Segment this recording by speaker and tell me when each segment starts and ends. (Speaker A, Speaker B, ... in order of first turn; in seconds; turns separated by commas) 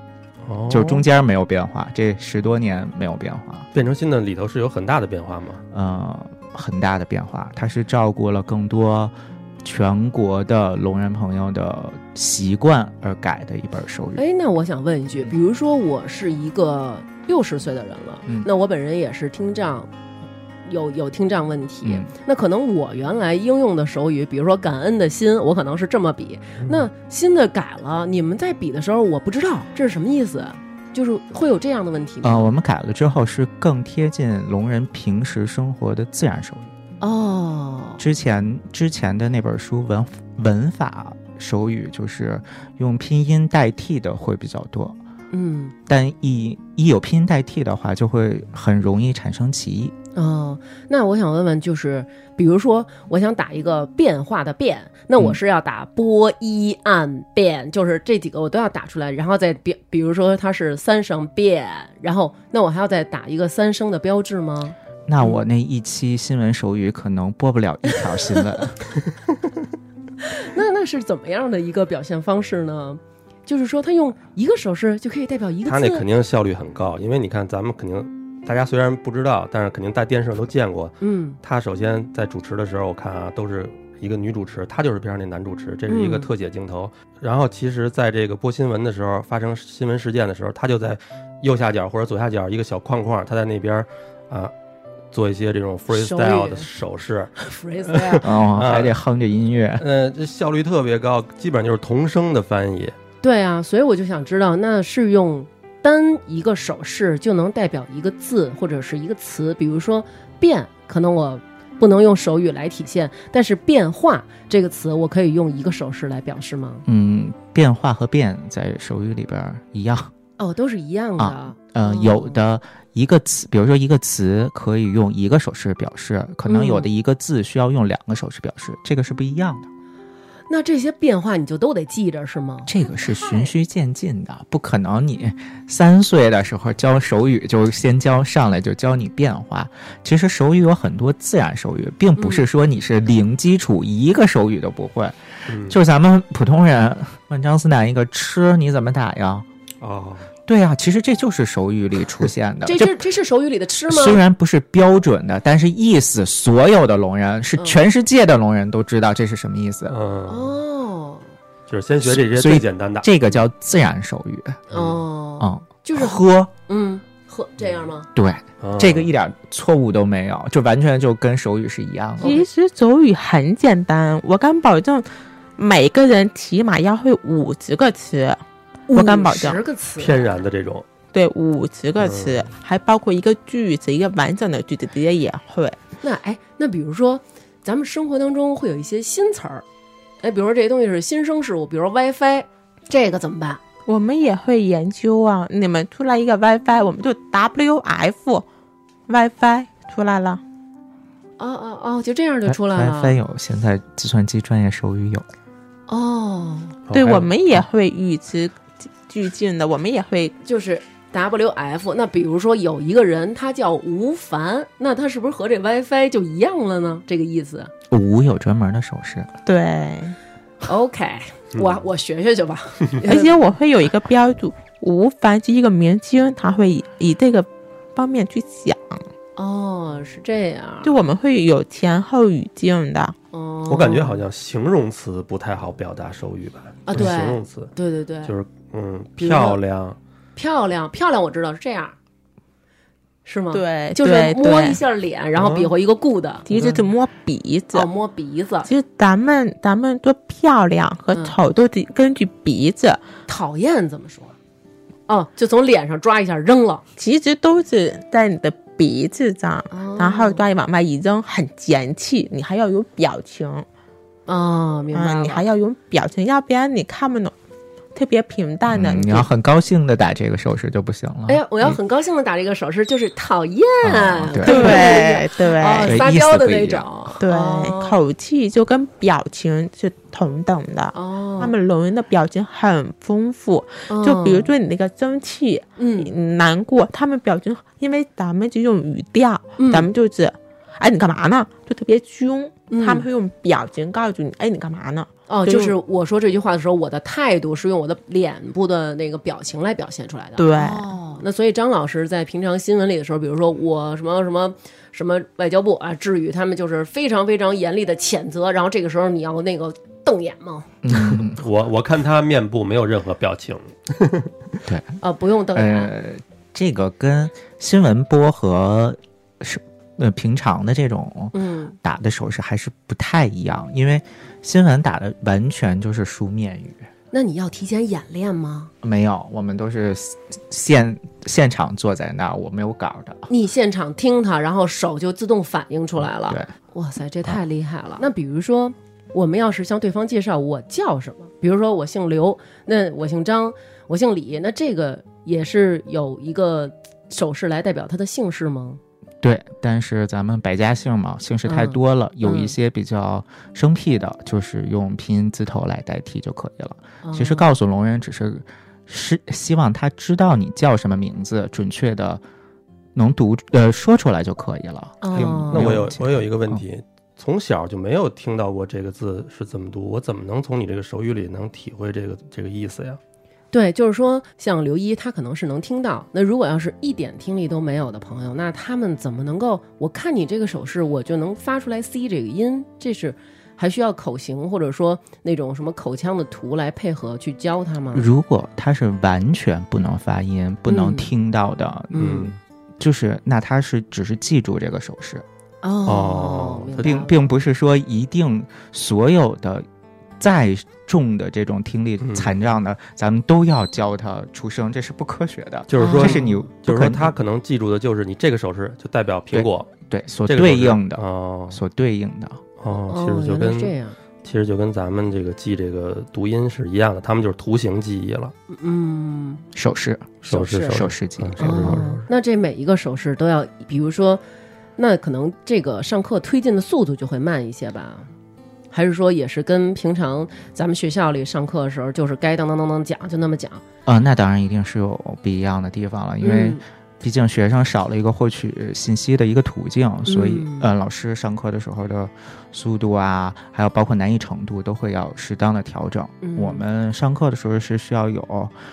Speaker A: 0.4-1.1, Speaker B: 0.7-3.7, Speaker A: 3.7-5.6, Speaker B: 5.7-14.2, Speaker C: 14.2-19.9, Speaker C: 20.6-32.5, Speaker B: 21.8-22.1, Speaker B: 32.2-36.7, Speaker C: 37.0-38.0, Speaker B: 38.0-45.0, Speaker C: 45.3-45.7, Speaker B: 45.9-49.9, Speaker C: 50.1-65.4, Speaker B: 65.1-68.8, Speaker C: 70.2-76.0, Speaker A: 75.7-94.5, Speaker C: 81.0-81.4, Speaker C: 85.9-86.3, Speaker A: 95.1-99.0, Speaker C: 95.9-96.7, Speaker C: 97.4-98.3, Speaker B: 98.2-99.8, Speaker A: 99.8-103.0, Speaker C: 103.2-116.8, Speaker B: 116.8-120.1, Speaker C: 120.4-122.3, Speaker B: 121.2-129.7, Speaker C: 126.5-126.9, Speaker C: 130.5-133.5, Speaker B: 132.7-149.4, Speaker C: 142.2-142.4, Speaker A: 145.5-145.8, Speaker A: 149.8-150.3, Speaker B: 150.5-153.0, Speaker C: 152.6-154.2, Speaker B: 153.9-159.9, Speaker A: 159.9-160.6, Speaker C: 160.3-161.3, Speaker A: 161.7-163.3, Speaker B: 162.0-164.6, Speaker A: 164.7-165.0, Speaker C: 164.7-168.1, Speaker B: 165.4-166.5, Speaker B: 168.1-172.4, Speaker A: 168.6-169.1, Speaker C: 172.2-172.4, Speaker D: 172.2-178.4, Speaker C: 178.9-180.4, Speaker D: 178.9-179.6, Speaker A: 180.0-180.8, Speaker D: 181.1-185.8, Speaker A: 182.0-182.4, Speaker C: 186.0-189.6, Speaker C: 190.2-193.6, Speaker D: 193.9-198.4, Speaker D: 199.1-200.4, Speaker C: 201.4-203.2, Speaker B: 202.4-205.2, Speaker C: 205.9-206.8, Speaker A: 206.9-207.3, Speaker D: 206.9-210.3, Speaker C: 210.4-217.7, Speaker B: 217.9-219.3, Speaker D: 219.4-220.2, Speaker C: 220.6-223.5, Speaker D: 223.0-229.0, Speaker C: 229.4-231.0, Speaker D: 230.8-233.2, Speaker C: 233.3-234.2, Speaker A: 233.7-237.7, Speaker C: 236.8-238.3, Speaker A: 238.2-240.0, Speaker C: 239.2-239.6, Speaker C: 240.3-241.9, Speaker C: 243.2-246.8, Speaker D: 243.5-244.8, Speaker A: 245.3-245.7, Speaker D: 246.5-247.9, Speaker C: 247.7-248.7, Speaker D: 248.6-253.0, Speaker C: 253.3-254.3, Speaker C: 255.1-256.8, Speaker D: 257.0-263.6, Speaker C: 259.7-260.4, Speaker C: 264.3-265.4, Speaker D: 264.9-267.3, Speaker D: 267.9-269.3, Speaker B: 268.7-271.8, Speaker C: 271.3-278.0, Speaker B: 273.8-275.0, Speaker D: 274.4-276.0, Speaker B: 275.8-276.9, Speaker D: 277.2-295.8, Speaker C: 280.9-281.5, Speaker C: 283.9-284.5, Speaker C: 285.8-286.1, Speaker C: 289.6-289.9, Speaker C: 292.7-293.1, Speaker C: 295.3-310.7, Speaker D: 300.4-300.9, Speaker B: 310.8-311.4, Speaker A: 310.9-314.3, Speaker B: 314.6-315.0, Speaker C: 315.0-315.9, Speaker B: 315.5-326.9, Speaker C: 321.3-321.7, Speaker C: 327.1-328.7, Speaker B: 328.8-333.3, Speaker C: 333.3-348.8, Speaker B: 349.2-362.2, Speaker C: 351.4-352.5, Speaker C: 357.0-357.5, Speaker B: 362.9-366.6, Speaker C: 365.0-365.8, Speaker A: 365.1-373.0, Speaker C: 373.5-388.1, Speaker B: 387.9-395.2, Speaker C: 390.7-391.1, Speaker C: 391.9-392.3, Speaker A: 391.9-392.3, Speaker C: 395.6-397.1, Speaker A: 395.9-397.1, Speaker B: 396.8-399.6, Speaker B: 400.2-407.1, Speaker A: 402.0-402.3, Speaker A: 405.7-409.7, Speaker C: 405.8-406.5, Speaker B: 409.3-412.4, Speaker A: 410.2-411.6, Speaker A: 412.6-418.3, Speaker C: 412.9-414.0, Speaker C: 418.5-419.4, Speaker B: 419.5-421.8, Speaker A: 420.2-422.1, Speaker C: 421.4-424.2, Speaker C: 424.8-428.1, Speaker C: 428.7-433.6, Speaker B: 433.9-448.5, Speaker C: 436.2-436.6, Speaker C: 440.1-440.7, Speaker C: 446.2-446.6